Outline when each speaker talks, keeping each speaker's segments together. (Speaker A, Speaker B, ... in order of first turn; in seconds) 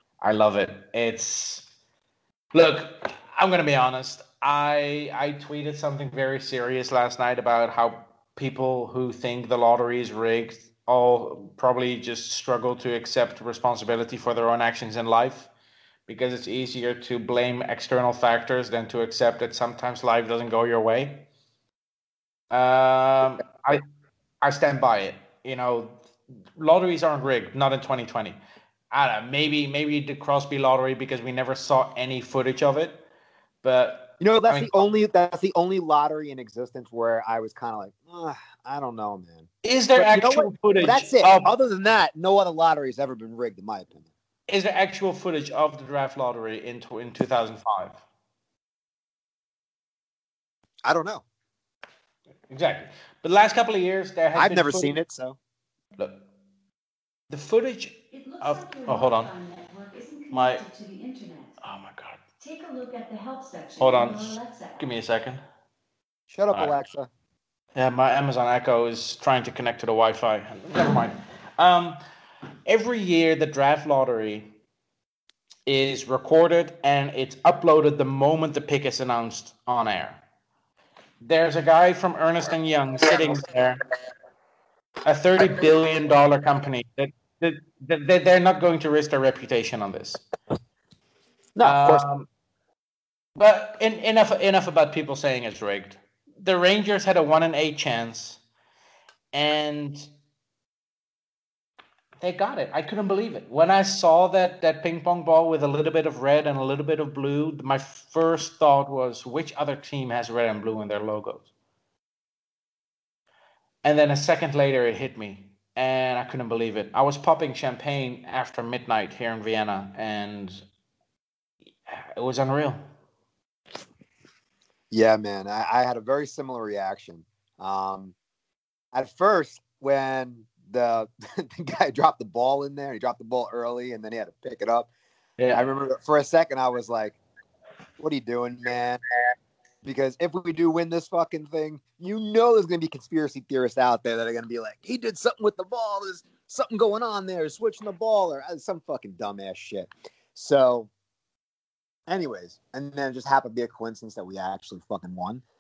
Speaker A: 0.2-1.7, 2.5-15.5, 16.1-21.3, 22.5-23.8, 24.4-26.0, 26.6-28.4, 28.9-33.1, 33.6-34.9, 39.6-41.5, 44.5-48.0, 52.5-55.0, 56.0-56.2, 57.3-59.3, 60.3-60.6, 61.6-62.2, 63.8-65.4, 67.8-72.0, 72.7-74.5, 75.7-80.2, 81.2-83.8, 85.0-90.2, 91.6-92.3, 93.4-98.4, 99.3-100.1, 102.2-111.5, 113.8-120.7, 121.9-122.8, 135.4-135.7
Speaker B: 34.2-44.0, 50.9-51.2, 54.4-55.4, 66.3-67.1, 91.5-92.1, 124.9-128.2, 128.9-134.9, 135.5-137.2, 138.0-139.0, 139.8-150.9, 152.1-155.4
Speaker C: 58.1-61.6, 62.4-64.8